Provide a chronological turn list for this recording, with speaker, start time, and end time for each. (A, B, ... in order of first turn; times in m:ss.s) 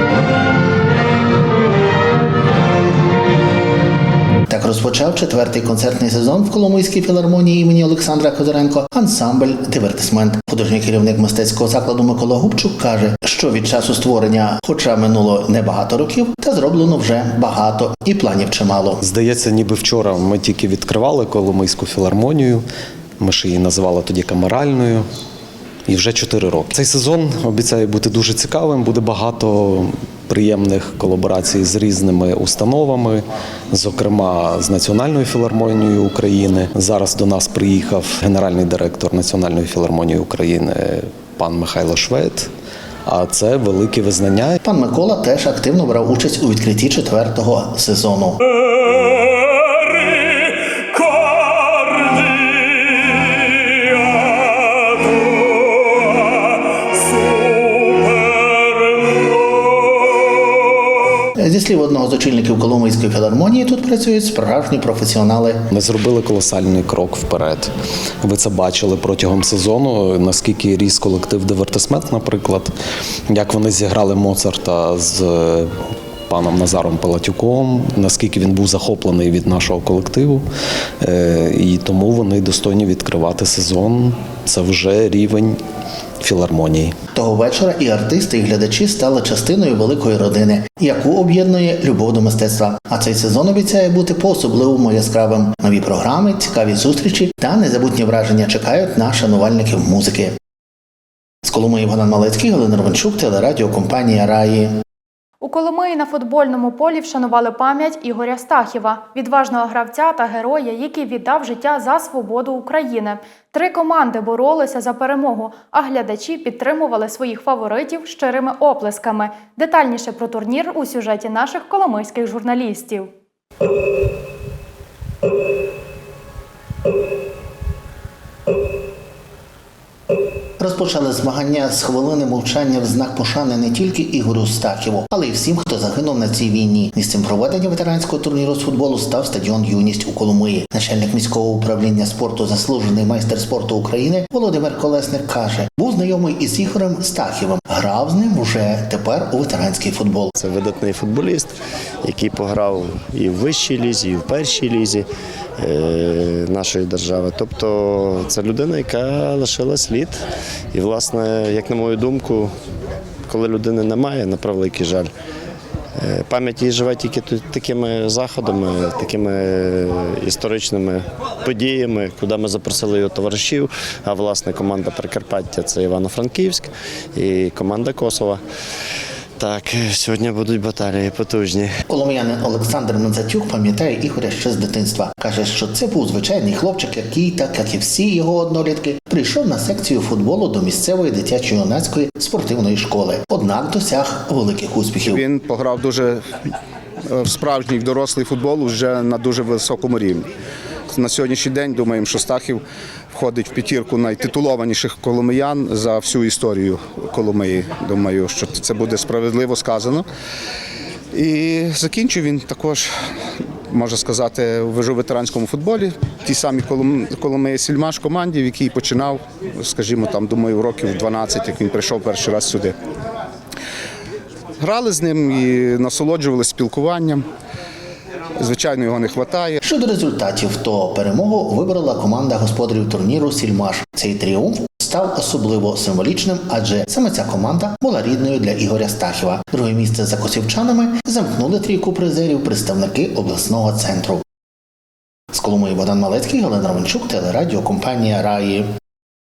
0:04.5-0:19.0 A
0:19.0-0:22.6 B
0:23.2-0:25.0 B
0:25.9-0:42.5 B
0:43.1-0:44.6 B
0:44.6-0:48.4 A
1:01.4-1:05.7 A
1:05.7-1:07.7 B
1:08.2-1:12.7 B
1:13.3-1:15.7 B
1:16.3-1:20.4 B
1:21.0-1:25.6 B
1:26.2-1:26.9 B
1:27.1-1:40.4 A
1:41.4-1:44.8 A
1:45.4-2:03.1 C
2:10.6-2:30.3 A
2:30.3-2:35.1 D
2:35.6-2:42.6 D
2:43.3-2:45.1 D
2:46.0-2:58.4 D
2:59.4-3:01.7 D
3:01.9-3:15.2 A
3:15.0-3:16.2 E
3:17.1-3:20.3 E
3:20.9-3:30.0 E
3:31.1-3:32.9 E
3:33.7-3:42.8 E
3:44.6-3:47.2 E
3:48.4-3:49.6 E
3:49.6-4:04.2 A
4:05.3-4:08.7 A